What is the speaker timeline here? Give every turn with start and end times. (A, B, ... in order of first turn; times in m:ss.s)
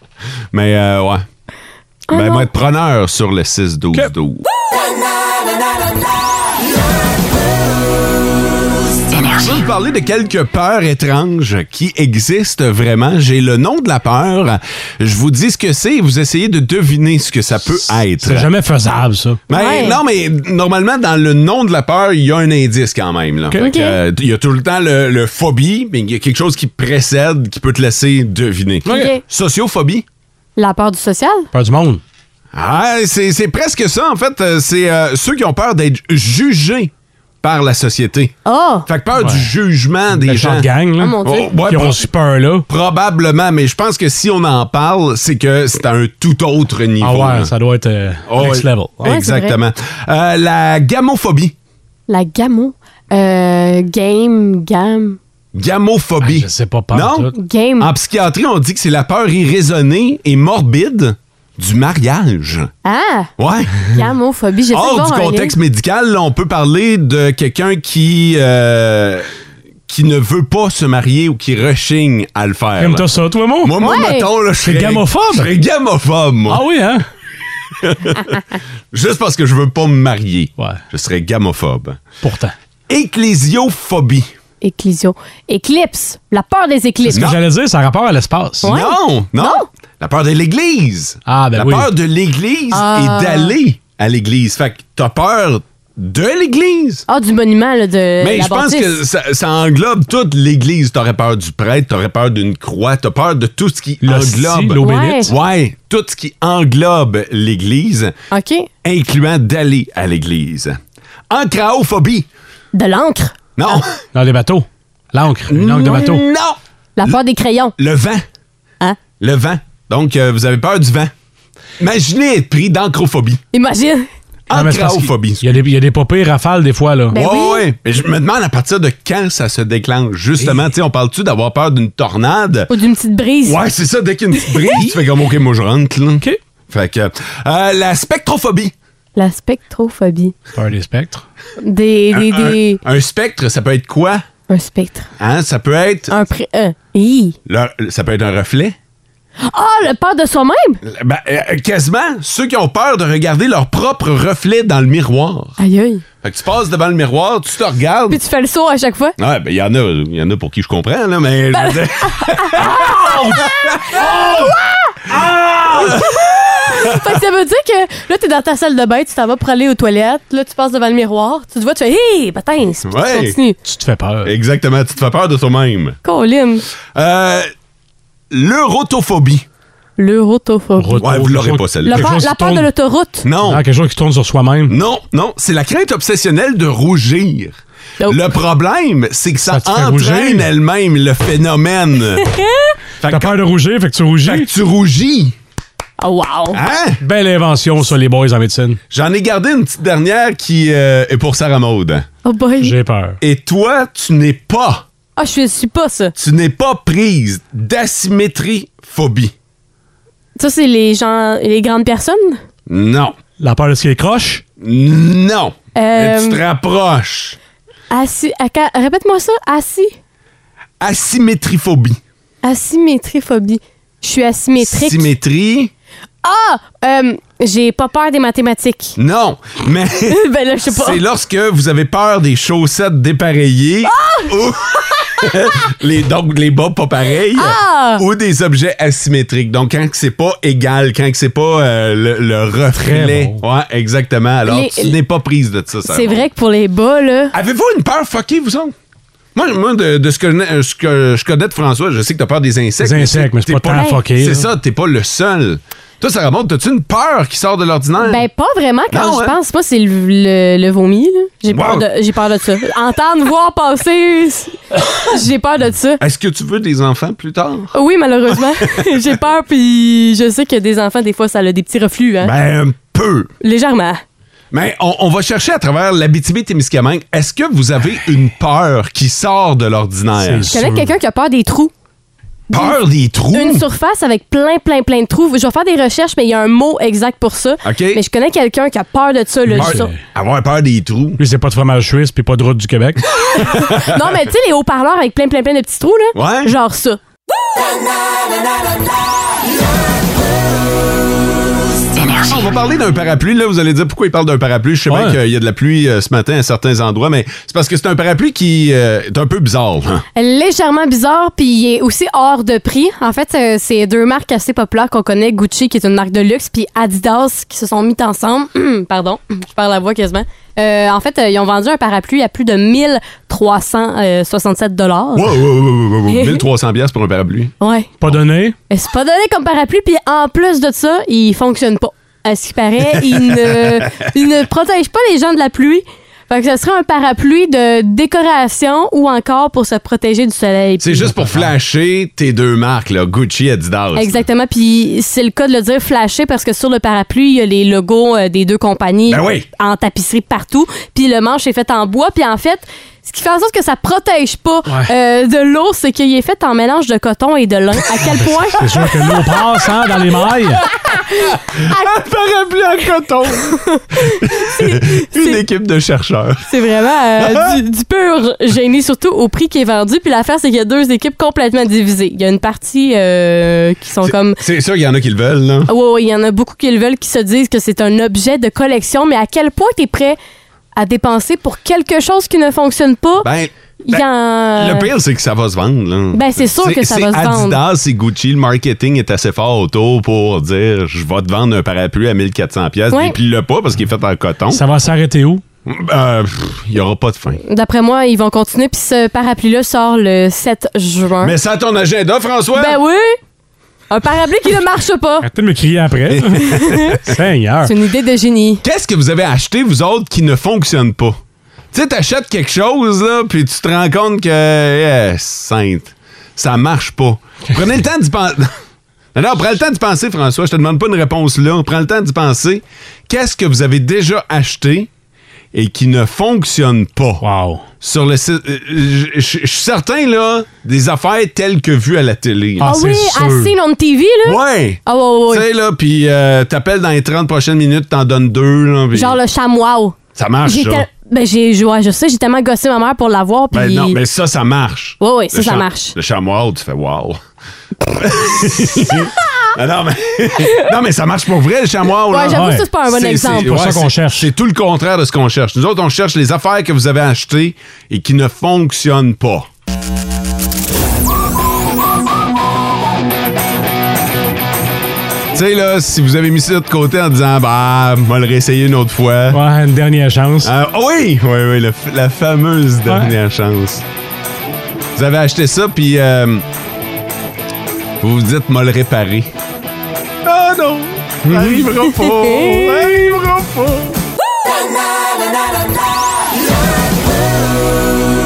0:00.5-0:01.2 A
0:02.1-0:02.5 B
0:02.1-0:04.4 A
0:09.3-0:18.5 A
0:18.2-0:19.4 C
0:19.5-0:30.0 A
0:19.5-0:20.0 B
0:23.6-0:24.0 B
0:28.9-0:29.1 C
0:28.9-0:29.2 B
0:30.6-0:31.5 B
0:31.5-0:32.0 C
0:32.5-0:36.9 A
0:37.4-0:38.3 A
0:38.4-0:38.9 B
0:38.9-0:40.7 A
0:39.2-0:39.5 C
0:40.1-0:42.7 C
0:41.0-0:41.5 B
0:41.2-0:42.1 A
0:42.7-0:47.5 A
0:47.0-0:49.1 C
0:48.3-0:51.5 A
0:49.0-0:49.6 B
0:52.1-0:55.2 B
0:55.6-1:02.7 A
0:56.2-0:57.3 C
0:57.4-0:57.9 B
1:02.8-1:03.3 B
1:03.4-1:04.0 A
1:03.9-1:05.6 B
1:04.7-1:09.3 A
1:09.9-1:13.1 A
1:12.8-1:13.7 C
1:13.6-1:16.6 A
1:13.8-1:14.3 B
1:14.6-1:15.5 C
1:16.5-1:17.0 C
1:17.8-1:18.4 A
1:18.9-1:22.0 A
1:22.2-1:22.5 C
1:22.9-1:24.3 A
1:24.6-1:27.2 B
1:27.1-1:28.7 C
1:27.1-1:27.4 A
1:28.6-1:29.7 B
1:28.6-1:37.1 A
1:31.3-1:31.9 C
1:32.7-1:33.6 B
1:37.1-1:39.0 B
1:38.2-1:48.1 A
1:44.0-1:45.3 C
1:44.8-1:45.3 B
1:48.3-1:48.7 B
1:48.8-1:50.8 A
1:51.3-1:52.3 A
1:52.7-1:53.8 B
1:53.6-1:54.0 A
1:54.1-1:56.2 C
1:55.5-1:57.2 A
1:57.0-1:57.8 B
1:57.8-1:58.2 A
1:59.2-2:01.1 A
2:01.8-2:03.4 A
2:03.5-2:04.1 B
2:04.5-2:05.6 A
2:04.5-2:07.2 C
2:07.1-2:07.6 B
2:07.1-2:12.7 A
2:12.7-2:13.6 B
2:13.4-2:18.7 A
2:14.4-2:14.8 B
2:19.2-2:20.3 B
2:20.6-2:21.2 C
2:21.6-2:22.8 B
2:22.1-2:24.2 A
2:24.5-2:25.1 B
2:25.2-2:26.1 A
2:26.1-2:27.4 B
2:27.5-2:28.8 A
2:29.4-2:30.8 B
2:30.8-2:35.6 A
2:35.6-2:36.0 B
2:36.2-2:38.2 A
2:38.1-2:39.2 B
2:39.2-2:44.5 A
2:41.5-2:45.0 B
2:45.1-2:47.0 A
2:45.8-2:53.6 B
2:52.9-2:53.4 A
2:53.6-2:54.3 C
2:54.2-2:56.0 A
2:56.0-2:56.6 B
2:57.0-2:57.5 A
2:58.3-2:59.4 A
3:00.0-3:01.1 B
3:00.8-3:02.7 C
3:01.0-3:02.1 A
3:01.8-3:03.2 B
3:03.2-3:03.6 A
3:03.4-3:04.7 C
3:04.7-3:12.2 A
3:09.5-3:10.5 C
3:12.2-3:12.7 B
3:13.0-3:13.4 A
3:13.1-3:14.5 C
3:14.2-3:15.4 A
3:16.0-3:16.6 B
3:16.5-3:17.0 A
3:17.0-3:18.8 C
3:18.9-3:22.1 A
3:22.2-3:22.8 B
3:22.6-3:23.2 C
3:23.2-3:24.8 A
3:25.2-3:26.1 B
3:26.2-3:29.3 A
3:30.4-3:32.4 B
3:32.7-3:33.2 A
3:33.4-3:34.4 C
3:34.6-3:37.4 A
3:35.8-3:36.4 B
3:37.9-3:39.9 B
3:40.8-3:42.0 A
3:42.4-3:45.1 B
3:44.6-3:45.7 A
3:46.2-3:49.0 B
3:49.0-4:06.2 A
3:50.1-3:51.0 B
3:53.9-3:54.4 B
3:57.4-3:58.0 B
4:02.8-4:03.4 C
4:04.5-4:05.0 B
4:05.9-4:07.3 B
4:07.3-4:08.7 A
4:09.4-4:18.2 A
4:12.8-4:14.5 C
4:13.7-4:14.0 B
4:18.0-4:26.0 B
4:18.9-4:19.4 A
4:21.5-4:21.8 A
4:26.0-4:27.7 A
4:27.7-4:32.3 B
4:32.2-4:33.3 A
4:33.4-4:34.0 B
4:34.5-4:40.6 A
4:40.2-4:40.9 C
4:40.5-4:41.7 B
4:42.5-4:42.8 B
4:42.5-4:43.6 A
4:43.3-4:49.9 B
4:47.6-4:48.0 A
4:49.5-4:50.0 C
4:49.5-4:51.2 A
4:51.2-4:53.0 C
4:53.4-4:53.9 A
4:53.4-4:57.0 B
4:56.2-4:56.5 A
5:02.2-5:10.0 A
5:04.9-5:05.2 C
5:10.2-5:25.4 B
5:25.2-5:27.5 A
5:26.1-5:26.4 B
5:27.6-5:27.9 B
5:28.0-5:28.6 C
5:28.7-5:41.1 B
5:33.3-5:33.6 A
5:40.8-5:44.2 A
5:41.2-5:41.5 C
5:44.0-5:58.7 B
5:49.1-5:49.5 A
5:58.5-6:00.6 C
6:01.2-6:06.5 A
6:03.5-6:05.4 B
6:06.5-6:14.4 B
6:07.2-6:07.6 A
6:14.0-6:15.7 A
6:15.7-6:20.2 B
6:20.8-6:23.3 B
6:23.2-6:24.0 A
6:23.8-6:24.9 B
6:24.6-6:34.6 A
6:26.1-6:27.6 B
6:32.9-6:33.2 B
6:34.5-6:35.4 C
6:35.7-6:37.4 A
6:37.5-6:41.4 B
6:41.2-6:42.8 A
6:42.6-6:43.2 B
6:43.9-6:45.3 B
6:45.2-6:47.7 C
6:46.1-6:47.1 A
6:46.5-6:47.0 B
6:47.6-6:48.6 B
6:48.6-6:51.2 A
6:51.7-6:58.5 A
6:59.2-7:04.9 A
7:05.5-7:07.2 A
7:07.2-7:07.6 C
7:07.8-7:12.7 A
7:12.6-7:13.5 C
7:12.6-7:15.5 B
7:14.2-7:19.2 A
7:18.9-7:24.0 B
7:20.2-7:20.9 A
7:23.5-7:27.2 A
7:25.0-7:26.0 B
7:27.9-7:39.5 A
7:32.1-7:33.6 B
7:32.3-7:32.7 C
7:33.4-7:34.3 C
7:45.3-7:49.4 A
7:49.3-7:50.5 C
7:50.4-7:53.8 A
7:52.9-7:53.1 C
7:55.0-7:56.4 A
7:58.0-7:59.3 A
8:00.2-8:04.0 A
8:02.0-8:02.8 B